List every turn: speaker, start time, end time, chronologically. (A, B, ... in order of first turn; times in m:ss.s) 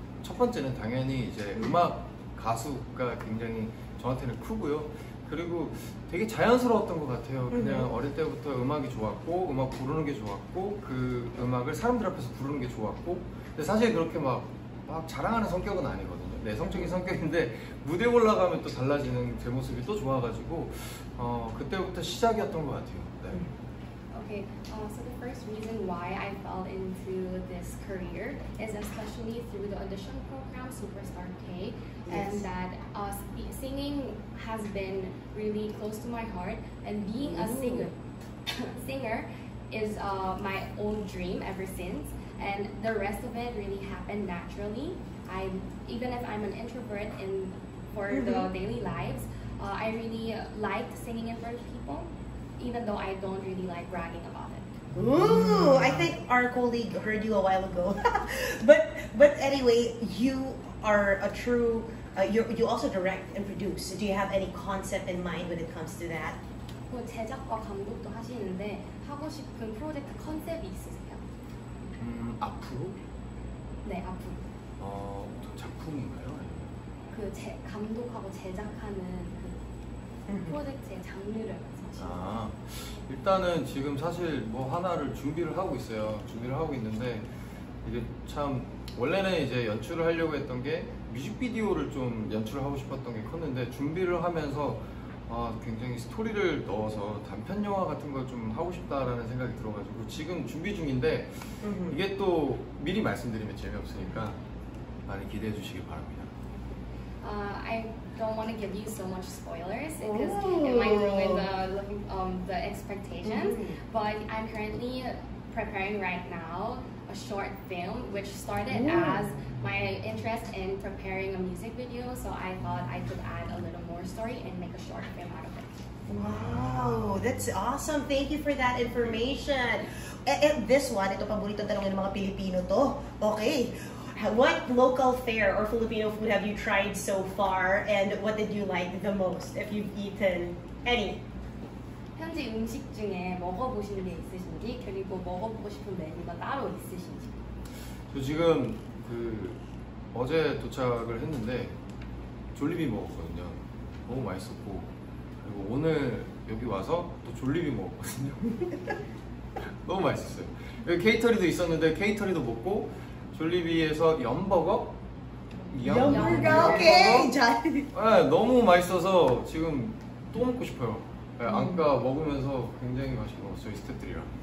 0:00.2-0:23.4 A
0:07.5-0:07.9 B
0:24.1-0:38.0 C
0:32.1-0:32.5 B
0:37.2-0:37.9 B
0:38.5-0:54.7 C
0:48.1-0:48.5 B
0:54.9-1:06.4 B
1:06.9-1:11.2 C
1:12.0-1:13.0 A
1:13.8-1:14.4 C
1:14.8-1:16.7 A
1:17.1-1:19.6 C
1:20.3-1:20.6 B
1:20.4-1:22.2 C
1:22.0-1:27.3 A
1:27.8-1:44.4 A
1:41.6-1:42.0 B
1:45.1-1:46.3 A
1:47.2-2:05.7 C
1:50.0-1:51.5 B
1:53.2-1:53.8 B
1:58.7-1:59.2 B
2:06.1-2:21.2 B
2:22.2-2:27.4 C
2:28.1-2:29.6 A
2:30.1-2:31.8 A
2:32.6-2:34.9 A
2:35.4-2:38.9 A
2:39.8-2:44.9 A
2:45.7-2:47.3 A
2:45.8-2:47.9 B
2:46.0-2:47.1 C
2:47.9-2:54.3 A
2:51.5-2:51.8 B